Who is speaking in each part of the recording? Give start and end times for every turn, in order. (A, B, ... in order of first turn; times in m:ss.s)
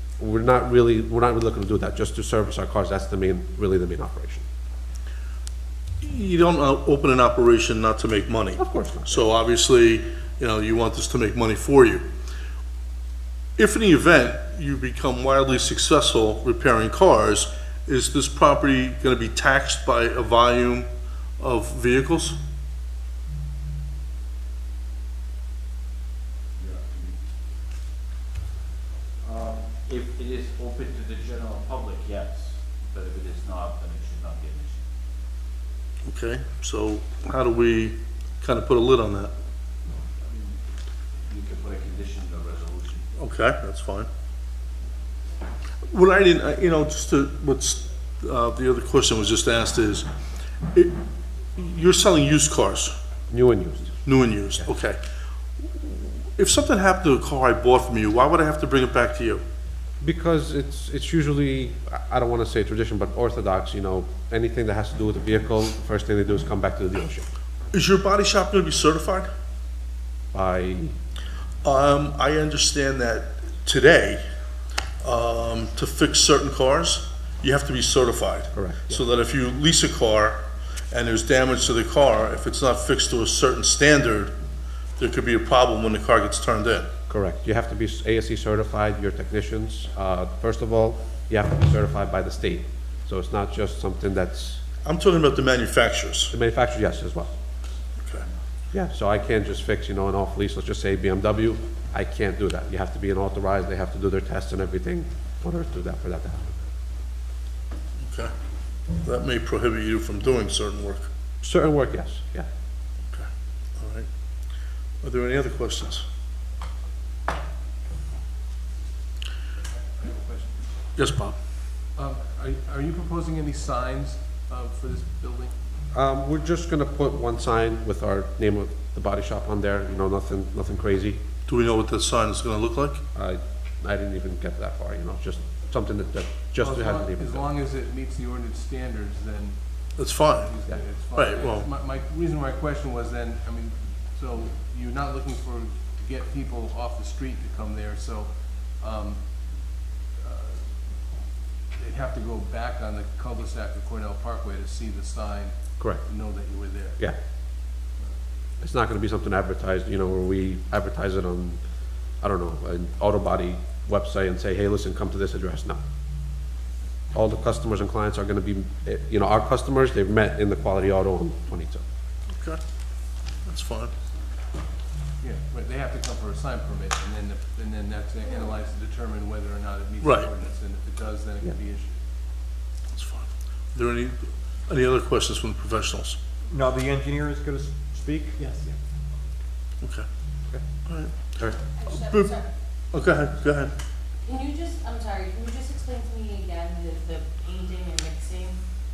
0:00.2-0:04.4 A
0:06.0-0:12.0 B
0:08.6-0:09.3 A
0:13.6-0:22.4 B
0:26.6-0:27.2 C
0:29.2-0:34.8 C
0:36.1-0:39.3 B
0:40.2-0:40.6 C
0:41.2-0:43.0 C
0:43.2-0:44.1 B
0:45.9-0:50.1 B
0:50.7-0:51.0 B
0:51.6-0:53.0 B
0:53.3-0:54.0 A
0:54.0-0:55.0 B
0:55.7-0:59.4 B
1:00.0-1:07.3 A
1:07.7-1:09.3 B
1:10.3-1:11.0 A
1:11.6-1:14.2 B
1:15.0-1:24.3 B
1:18.5-1:19.0 A
1:25.0-1:26.9 B
1:27.1-1:34.6 A
1:34.8-1:36.3 B
1:36.3-1:37.3 A
1:38.7-1:46.6 A
1:48.0-1:48.3 B
1:49.0-1:51.1 B
1:51.4-1:52.5 A
1:53.8-1:54.1 B
1:55.0-1:56.0 B
2:00.0-2:00.7 D
2:01.0-2:01.4 B
2:02.0-2:05.5 D
2:05.9-2:11.2 A
2:11.5-2:13.0 B
2:13.1-2:17.4 A
2:16.6-2:29.3 D
2:20.0-2:20.5 B
2:21.2-2:21.7 B
2:30.2-2:30.7 D
2:31.8-2:37.0 D
2:38.6-2:41.6 A
2:42.2-2:45.8 A
2:47.1-2:51.8 A
2:52.3-2:52.6 B
2:53.5-2:53.9 B
2:55.2-3:01.9 D
3:00.0-3:00.3 B
3:02.9-3:06.2 B
3:06.5-3:08.7 E
3:10.9-3:12.4 B
3:11.9-3:12.4 F
3:12.9-3:13.7 B
3:14.2-3:18.6 F